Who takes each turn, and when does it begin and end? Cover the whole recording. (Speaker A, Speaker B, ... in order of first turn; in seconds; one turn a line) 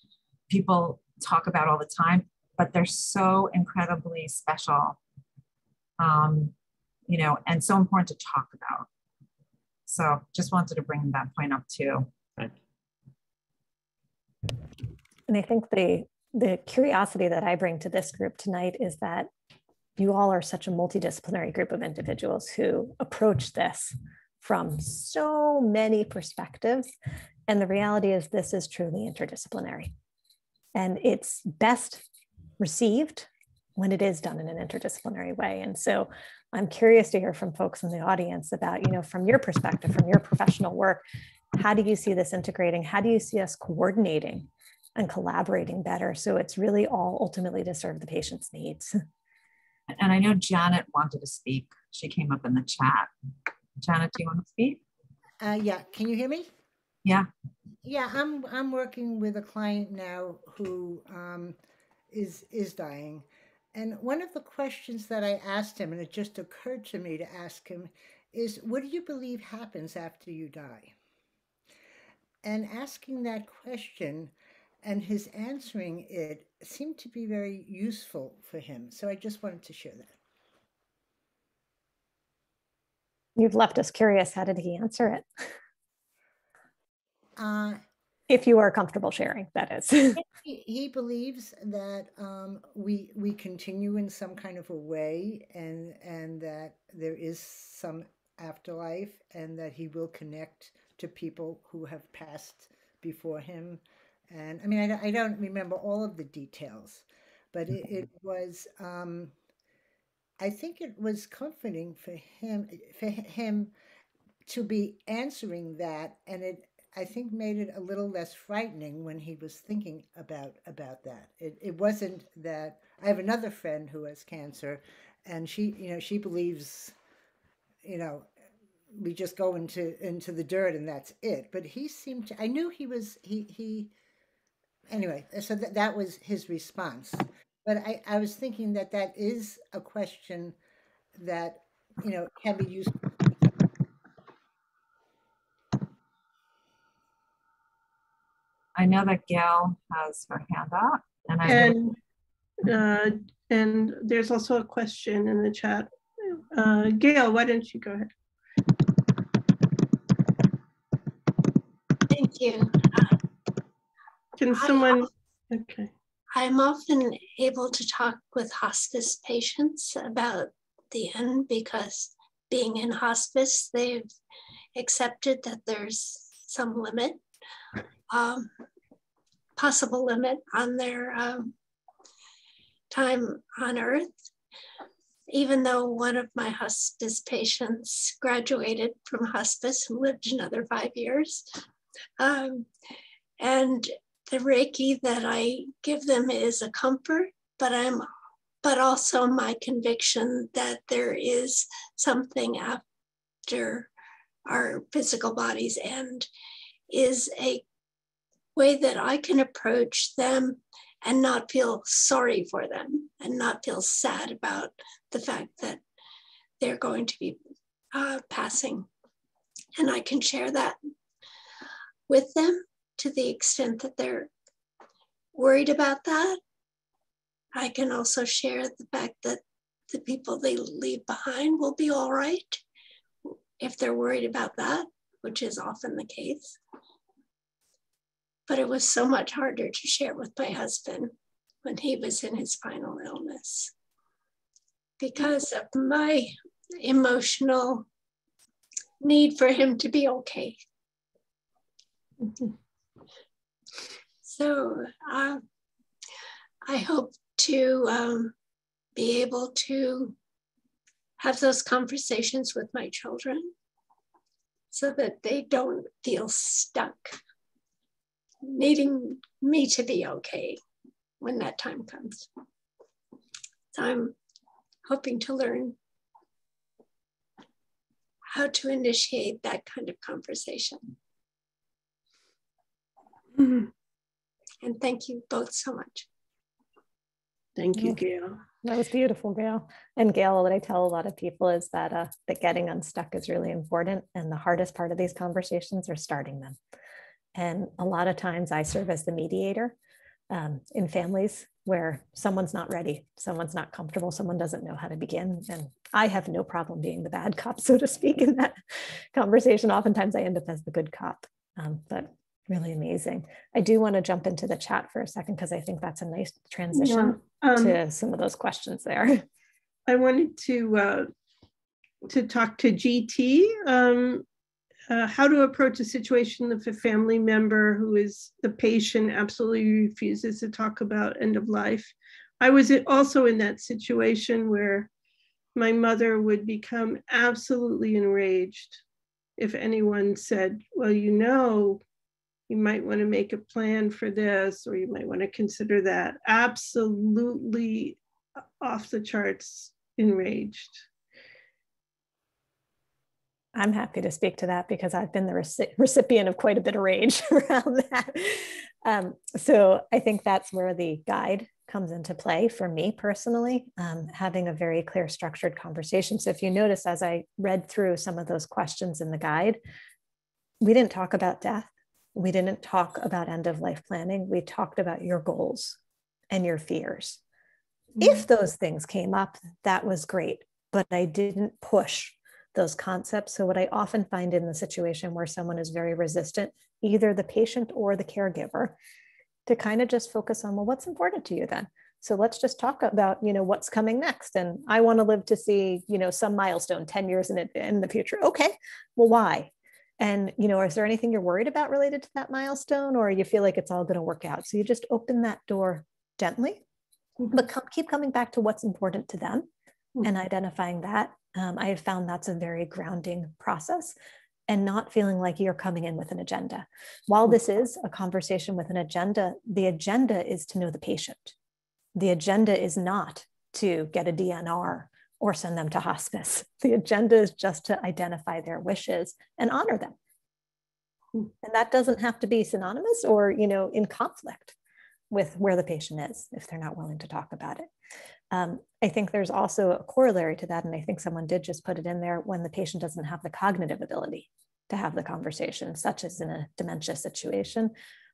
Speaker A: 0.5-5.0
Speaker A: 6.0-6.5
Speaker A: 7.1-8.9
Speaker A: 9.9-12.1
Speaker B: 15.3-19.3
Speaker B: 20.0-26.9
Speaker B: 27.5-29.9
Speaker B: 30.8-32.0
Speaker B: 32.6-41.0
Speaker B: 41.6-49.0
Speaker A: 49.9-53.1
Speaker A: 53.8-54.8
Speaker C: 55.4-56.5
Speaker C: 57.8-61.6
Speaker C: 62.1-71.0
Speaker C: 72.4-80.2
Speaker B: 83.4-85.3
Speaker C: 87.4-87.8
Speaker B: 88.3-90.2
Speaker C: 90.4-109.3
Speaker C: 110.4-113.7
Speaker C: 114.5-127.0
Speaker C: 127.8-128.3
Speaker C: 128.9-133.9
Speaker C: 134.9-140.6
Speaker C: 141.2-143.4
Speaker A: 148.8-151.8
Speaker D: 151.4-152.0
Speaker D: 152.6-158.1
Speaker E: 162.1-163.1
Speaker D: 164.4-165.9
Speaker E: 164.5-165.1
Speaker E: 166.3-174.1
Speaker E: 174.8-177.2
Speaker E: 178.1-178.5
Speaker E: 179.6-181.5
Speaker E: 182.9-184.1
Speaker E: 185.3-191.5
Speaker E: 192.2-192.7
Speaker E: 193.4-198.1
Speaker E: 198.6-202.8
Speaker E: 203.5-203.9
Speaker E: 204.5-206.3
Speaker E: 206.9-207.7
Speaker E: 208.6-215.8
Speaker E: 216.6-217.4
Speaker E: 217.9-218.9
Speaker E: 219.8-220.8
Speaker E: 222.1-224.3
Speaker E: 225.3-226.4
Speaker E: 227.6-232.6
Speaker E: 233.6-236.6
Speaker E: 238.5-243.7
Speaker E: 245.0-247.9
Speaker E: 249.0-250.6
Speaker E: 254.2-255.4
Speaker E: 256.6-258.3
Speaker E: 259.0-260.2
Speaker E: 261.2-263.5
Speaker E: 264.7-267.2
Speaker E: 268.4-270.6
Speaker E: 271.2-272.3
Speaker E: 273.7-274.2
Speaker E: 274.9-275.8
Speaker E: 278.3-280.9
Speaker E: 283.4-283.7
Speaker E: 284.6-286.1
Speaker D: 287.6-288.4
Speaker B: 288.6-296.6
Speaker B: 297.4-299.8
Speaker B: 300.3-308.6
Speaker B: 309.1-319.2
Speaker D: 316.7-317.8
Speaker D: 319.9-321.1
Speaker D: 322.1-324.2
Speaker D: 324.9-334.9
Speaker D: 335.6-338.8
Speaker D: 339.4-341.8
Speaker D: 342.5-348.0
Speaker D: 348.6-350.8
Speaker B: 353.6-369.6
Speaker B: 370.6-375.8
Speaker B: 376.3-377.2
Speaker B: 378.0-388.8
Speaker B: 389.5-406.6
Speaker B: 407.3-409.5
Speaker B: 410.0-413.9
Speaker B: 414.5-421.3
Speaker B: 422.0-430.0
Speaker B: 431.4-434.6
Speaker B: 435.1-437.7
Speaker B: 438.3-447.7